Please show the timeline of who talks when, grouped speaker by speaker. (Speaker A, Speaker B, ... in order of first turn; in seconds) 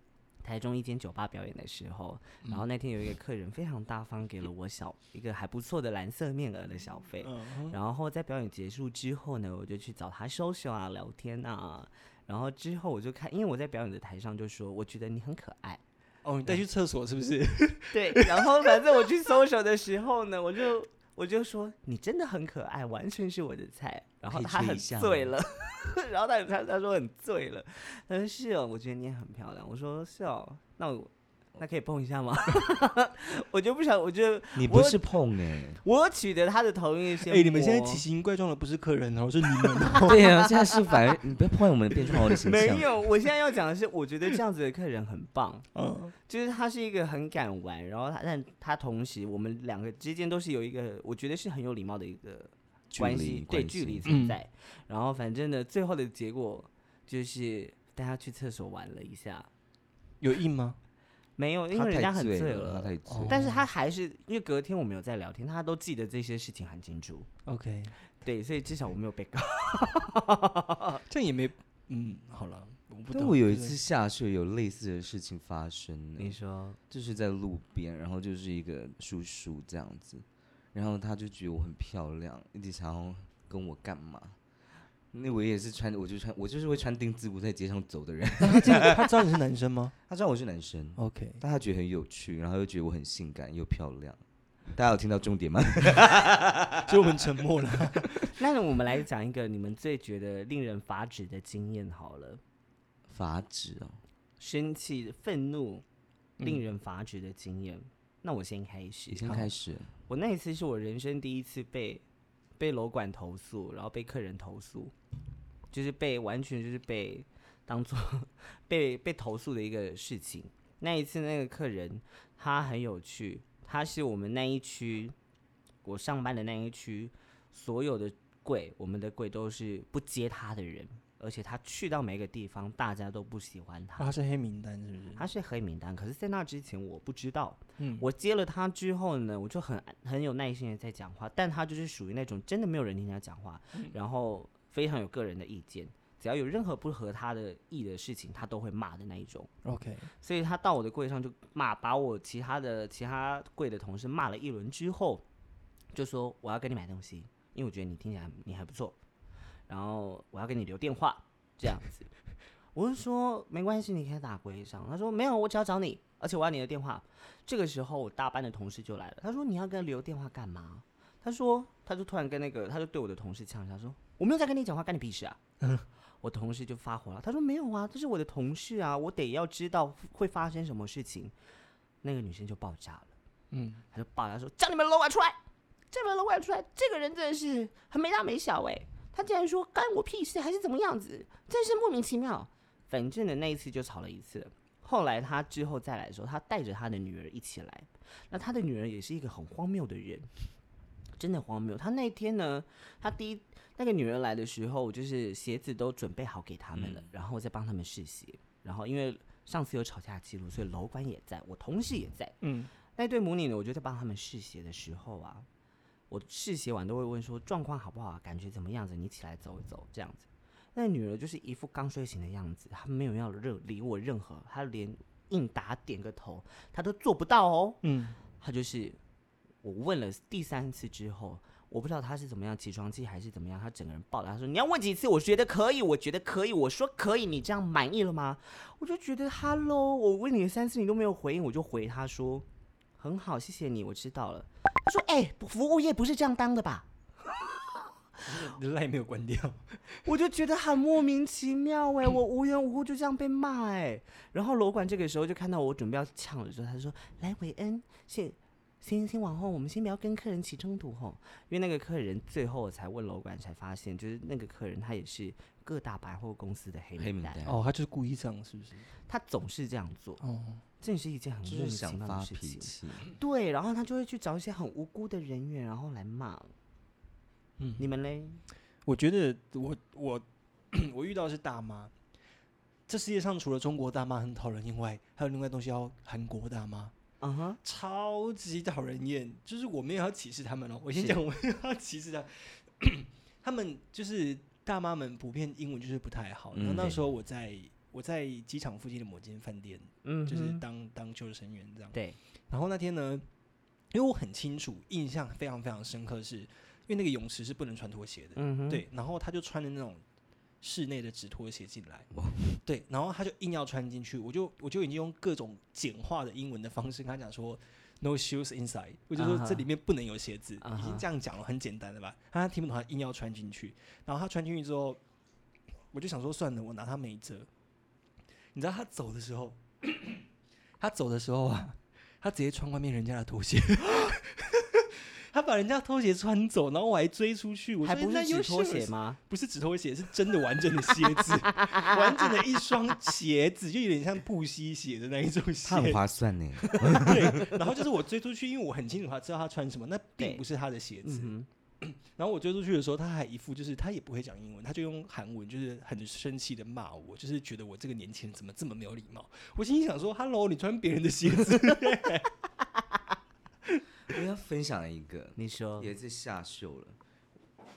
Speaker A: 0.4-15.8, 17.9-35.0, 35.8-38.0, 40.1-40.8, 42.4-45.7, 46.3-59.5, 61.4-67.3, 68.2-71.0, 76.2-76.8, 98.3-102.4, 104.4-105.8, 106.4-109.5, 110.1-112.0, 112.6-114.9, 115.7-125.2, 125.8-134.2, 135.2-149.5, 150.2-155.2, 155.9-159.0, 159.7-162.1, 162.8-175.4, 176.2-181.3, 182.0-183.1, 183.9-185.4, 185.9-200.3, 201.2-212.3, 212.9-215.5, 216.1-227.8, 228.4-229.0, 229.6-242.5, 243.0-246.9, 250.1-267.4, 269.1-270.2, 270.8-276.5, 277.8-278.4, 287.2-287.6, 300.0-300.6, 308.4-308.8, 319.2-319.7, 320.6-321.1, 337.8-339.2, 341.6-342.0, 351.1-351.5, 365.4-365.9
Speaker B: 7.2-7.8, 16.2-18.7, 37.3-40.3, 42.1-42.4, 45.7-46.1, 54.1-54.4, 60.2-60.8, 63.1-63.7, 67.5-68.0, 71.1-73.8, 88.4-90.0, 91.0-91.4, 96.8-98.3, 134.0-135.3, 137.8-138.1, 149.6-150.1, 175.6-175.9, 183.5-183.8, 212.4-212.7, 227.8-228.2, 248.2-249.8, 267.4-268.9, 270.2-270.6, 277.6-277.9, 278.9-281.9, 282.9-286.9, 287.6-302.0, 302.5-303.2, 303.9-310.0, 310.6-312.1, 312.6-325.0, 325.9-327.5, 328.5-330.2, 330.8-346.0, 347.0-362.3
Speaker C: 24.2-25.3, 34.5-35.8, 40.1-42.9, 52.9-54.0, 61.7-63.5, 73.1-76.4, 76.9-84.4, 85.1-89.1, 90.1-94.2, 94.7-97.1, 103.1-104.0, 109.1-109.9, 206.8-207.1, 267.0-267.6, 271.5-273.1, 296.5-297.0, 312.1-312.5, 345.6-347.5, 364.1-367.0